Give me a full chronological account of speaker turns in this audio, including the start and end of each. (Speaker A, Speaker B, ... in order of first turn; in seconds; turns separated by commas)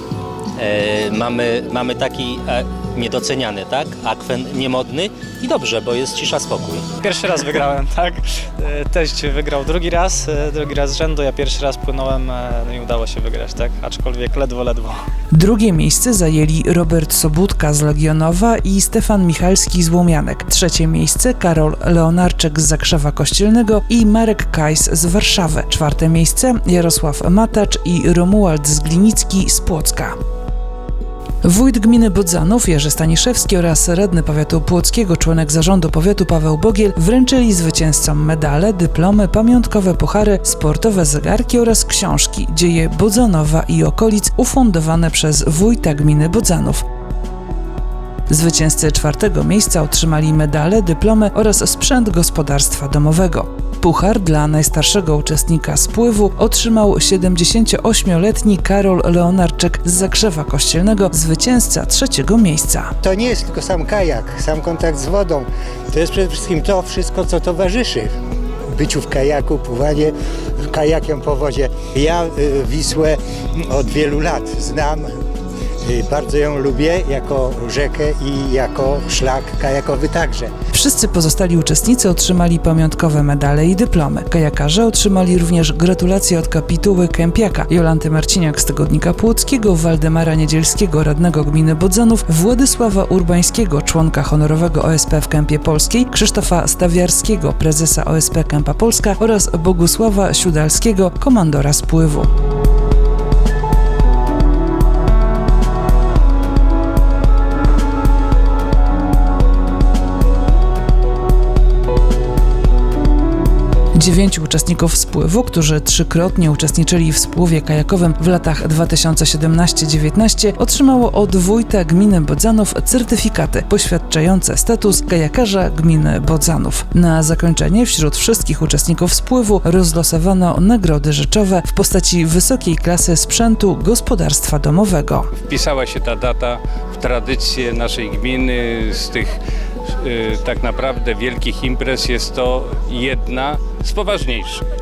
Speaker A: 0.6-6.9, Speaker B: 7.0-15.0, Speaker C: 15.3-30.1, Speaker C: 31.4-46.8, Speaker C: 48.3-62.9, Speaker D: 63.0-68.1, Speaker D: 68.7-70.1, Speaker D: 70.7-73.2, Speaker D: 73.7-75.1, Speaker D: 75.8-80.5, Speaker C: 80.7-102.3, Speaker C: 114.0-135.3, Speaker E: 135.4-139.4, Speaker E: 140.0-144.6